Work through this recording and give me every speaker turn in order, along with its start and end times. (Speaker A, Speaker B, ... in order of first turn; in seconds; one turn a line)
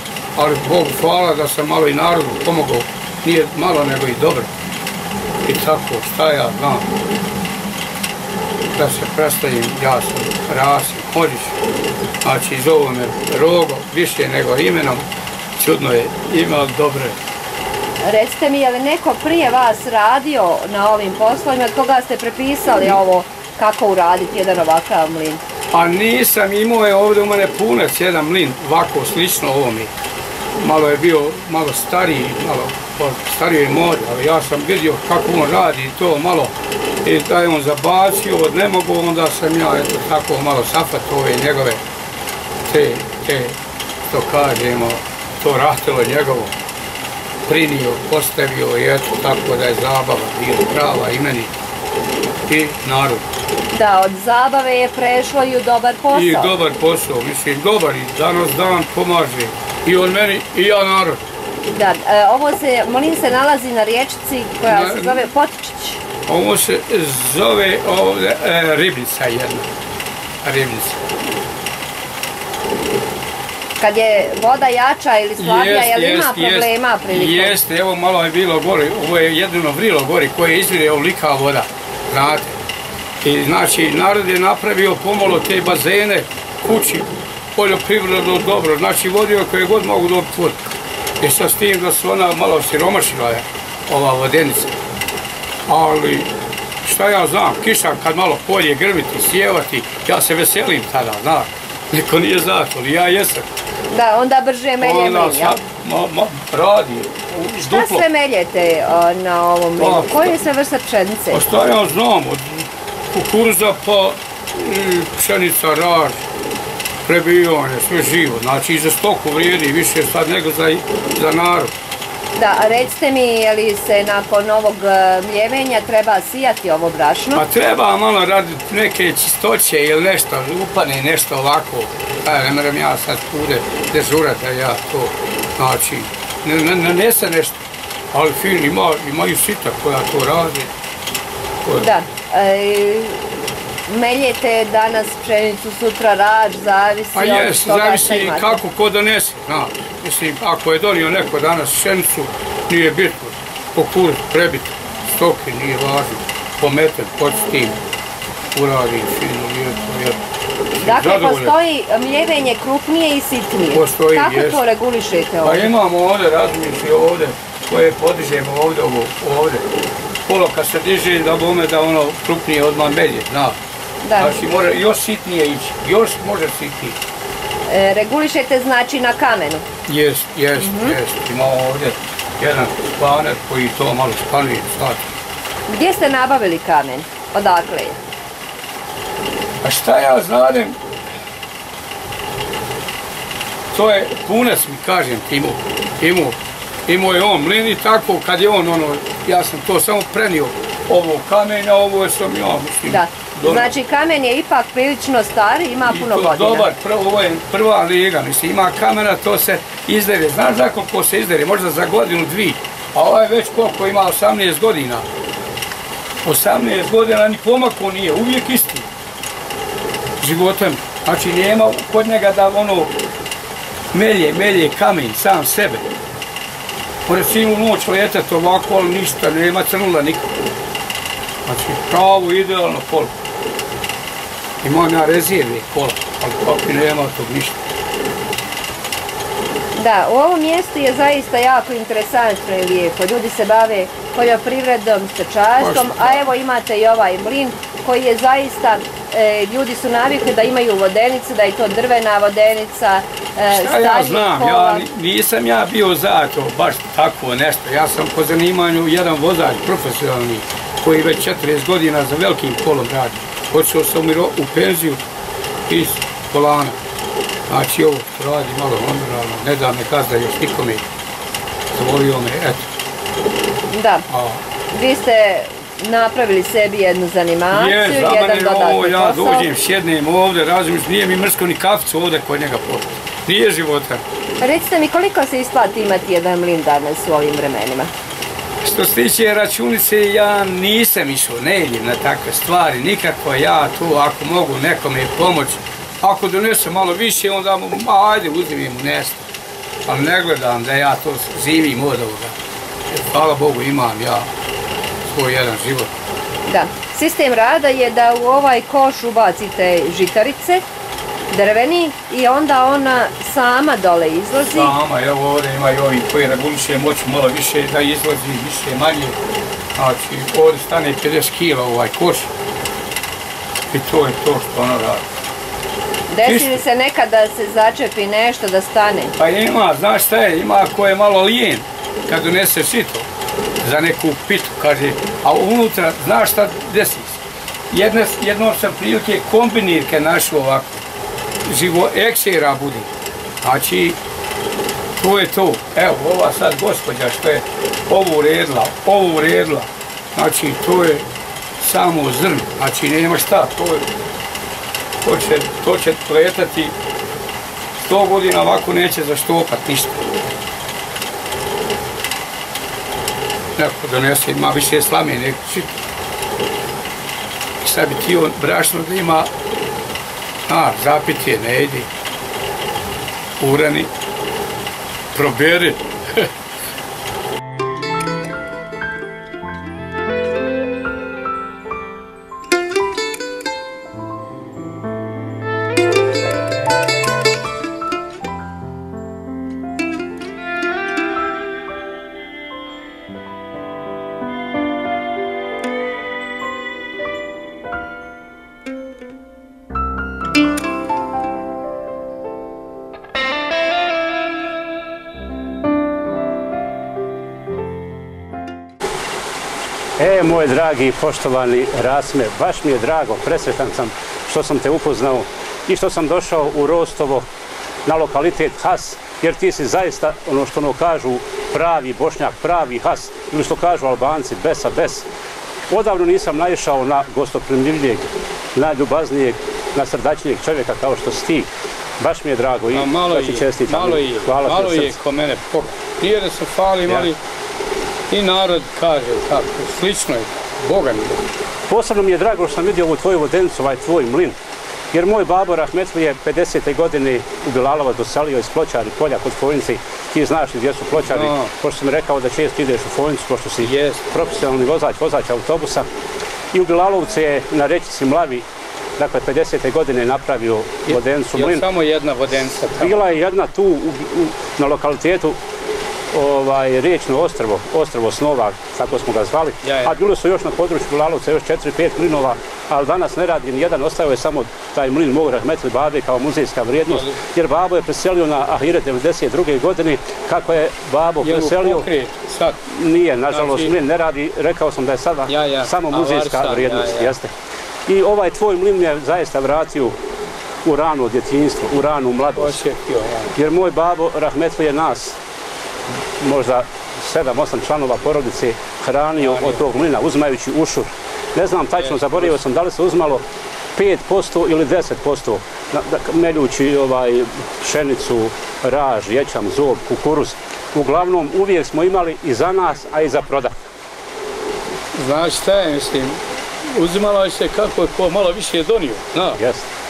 Speaker A: 0.3-4.5
Speaker A: 5.4-6.8
Speaker A: 8.7-11.6
Speaker A: 12.2-15.0
Speaker A: 15.6-17.2
Speaker B: 18.0-25.4
Speaker A: 25.7-29.9
Speaker A: 30.6-41.8
Speaker A: 42.6-43.5
Speaker A: 44.1-46.5
Speaker A: 47.5-51.5
Speaker A: 52.5-53.2
Speaker B: 53.7-56.5
Speaker A: 56.1-61.2
Speaker B: 61.7-66.0
Speaker A: 64.6-65.2
Speaker A: 66.2-69.7
Speaker A: 70.4-71.0
Speaker B: 73.8-77.6
Speaker A: 75.4-82.6
Speaker A: 83.2-94.8
Speaker A: 95.7-96.3
Speaker A: 96.8-103.5
Speaker B: 103.9-105.6
Speaker A: 104.8-108.0
Speaker B: 107.6-111.4
Speaker A: 109.8-110.4
Speaker A: 111.3-116.2
Speaker A: 117.0-121.7
Speaker B: 122.3-127.4
Speaker A: 127.3-140.7
Speaker B: 141.8-143.2
Speaker B: 143.9-148.6
Speaker A: 147.1-157.8
Speaker A: 158.5-160.2
Speaker A: 160.7-161.5
Speaker B: 160.8-165.7
Speaker A: 163.7-164.6
Speaker A: 165.4-169.6
Speaker A: 170.2-173.6
Speaker B: 174.0-174.4
Speaker A: 174.2-177.0
Speaker B: 177.7-179.7
Speaker A: 179.9-185.1
Speaker B: 180.6-181.0
Speaker B: 185.7-188.0
Speaker A: 189.6-190.8
Speaker A: 193.7-196.3
Speaker A: 196.9-203.7
Speaker B: 202.9-206.7
Speaker A: 205.9-215.0
Speaker A: 216.2-218.9
Speaker A: 220.2-222.9
Speaker A: 223.9-225.8
Speaker A: 227.1-230.3
Speaker A: 231.4-233.2
Speaker A: 234.6-237.6
Speaker B: 239.8-254.8
Speaker A: 245.6-246.2
Speaker A: 253.5-265.0
Speaker A: 265.7-266.8
Speaker A: 267.5-270.9
Speaker A: 271.7-272.7
Speaker B: 273.7-274.1
Speaker A: 274.1-274.4
Speaker B: 274.7-279.5
Speaker A: 277.5-284.0
Speaker B: 284.4-287.9
Speaker A: 288.6-299.2
Speaker A: 299.9-302.3
Speaker A: 302.9-304.3
Speaker A: 305.1-305.9
Speaker B: 306.5-310.7
Speaker B: 311.3-314.7
Speaker A: 314.5-319.1
Speaker A: 319.8-322.3
Speaker A: 323.7-325.0
Speaker B: 326.1-329.1
Speaker A: 326.2-326.6
Speaker A: 329.2-333.1
Speaker A: 333.6-340.8
Speaker A: 341.4-342.9
Speaker A: 343.4-344.0
Speaker A: 345.0-351.1
Speaker A: 351.6-353.9
Speaker A: 355.0-356.7
Speaker A: 357.8-360.0
Speaker A: 363.6-365.7
Speaker A: 367.6-369.3
Speaker A: 370.5-371.9
Speaker A: 373.4-373.9
Speaker A: 375.1-376.3
Speaker C: 410.0-417.2
Speaker C: 417.9-425.1
Speaker C: 425.7-435.0
Speaker A: 432.7-437.2
Speaker A: 438.1-441.2
Speaker C: 441.7-444.4
Speaker C: 444.9-455.9
Speaker A: 451.0-451.5
Speaker A: 453.6-454.1
Speaker C: 456.5-458.4
Speaker C: 459.0-461.6
Speaker A: 460.9-462.9
Speaker C: 462.8-465.4
Speaker C: 466.1-481.9
Speaker A: 469.6-469.9
Speaker A: 476.9-477.2
Speaker A: 481.2-482.6
Speaker C: 482.6-487.3
Speaker A: 483.3-483.7
Speaker A: 485.3-487.1
Speaker C: 487.9-489.9
Speaker C: 490.6-492.6
Speaker A: 492.3-493.3
Speaker C: 493.3-495.2
Speaker C: 496.2-513.5
Speaker A: 499.2-499.6
Speaker A: 501.8-502.3
Speaker A: 514.9-519.4
Speaker C: 519.4-519.7